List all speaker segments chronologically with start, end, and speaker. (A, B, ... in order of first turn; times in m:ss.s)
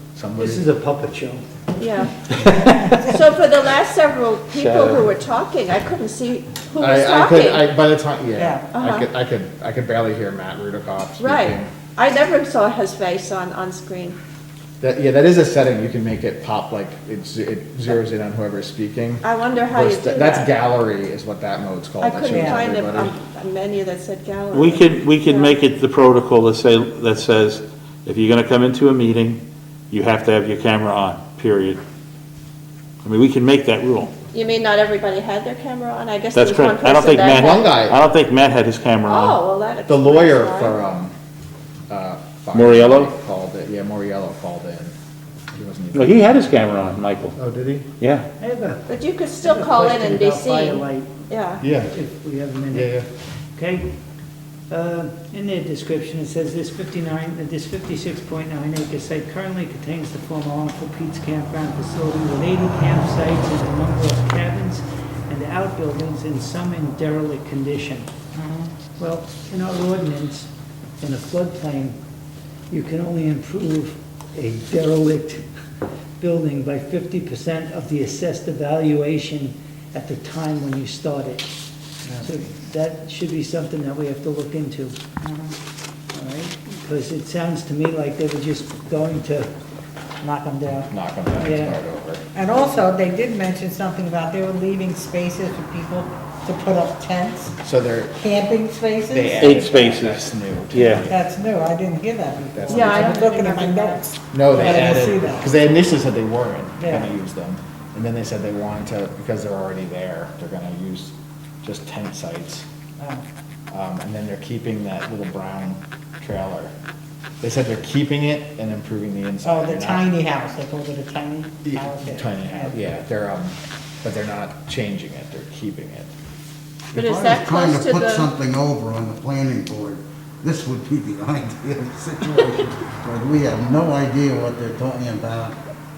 0:00.1-0:00.6 A
0:00.4-0:01.4 B
0:01.8-0:02.1 C
0:02.4-0:02.8 D
0:02.6-0:03.1 E
0:03.1-0:07.7 C
0:04.5-0:05.0 D
0:06.8-0:11.7 A
0:08.4-0:08.7 E
0:08.7-0:09.1 C
0:11.2-0:14.2 C
0:14.8-0:23.1 A
0:19.2-0:20.5 C
0:22.0-0:25.6 C
0:22.3-0:22.6 E
0:24.5-0:31.8 D
0:33.0-0:34.1 D
0:34.3-0:37.8 C
0:36.3-0:39.4 D
0:37.3-0:38.0 A
0:39.0-0:40.8 C
0:39.9-0:41.1 A
0:41.9-0:44.9 A
0:42.5-0:43.1 D
0:45.5-0:46.3 A
0:45.9-0:47.4 D
0:47.4-0:47.9 A
0:48.0-0:48.2 D
0:48.4-0:48.8 B
0:48.9-0:51.6 C
0:49.4-0:52.9 B
0:51.6-0:51.9 A
0:52.7-0:53.0 A
0:53.6-0:53.9 B
0:54.7-1:08.1 B
1:08.3-1:08.7 E
1:09.0-1:10.5 B
1:11.0-1:12.0 B
1:12.7-1:15.4 B
1:16.2-1:21.5 B
1:22.0-1:22.4 E
1:22.2-1:25.0 B
1:25.2-1:25.5 E
1:26.1-1:29.5 B
1:30.2-1:30.9 E
1:30.9-1:32.2 A
1:31.4-1:31.8 B
1:32.3-1:37.5 E
1:37.6-1:38.2 A
1:38.2-1:39.5 E
1:39.1-1:41.2 A
1:39.4-1:41.1 D
1:41.1-1:45.5 E
1:42.5-1:43.2 A
1:42.7-1:44.1 C
1:44.3-1:52.6 A
1:46.8-1:47.1 E
1:53.7-1:56.7 A
1:57.4-2:00.0 A
1:59.4-2:02.8 E
2:01.6-2:06.1 A
2:06.9-2:15.6 F
2:06.9-2:08.3 C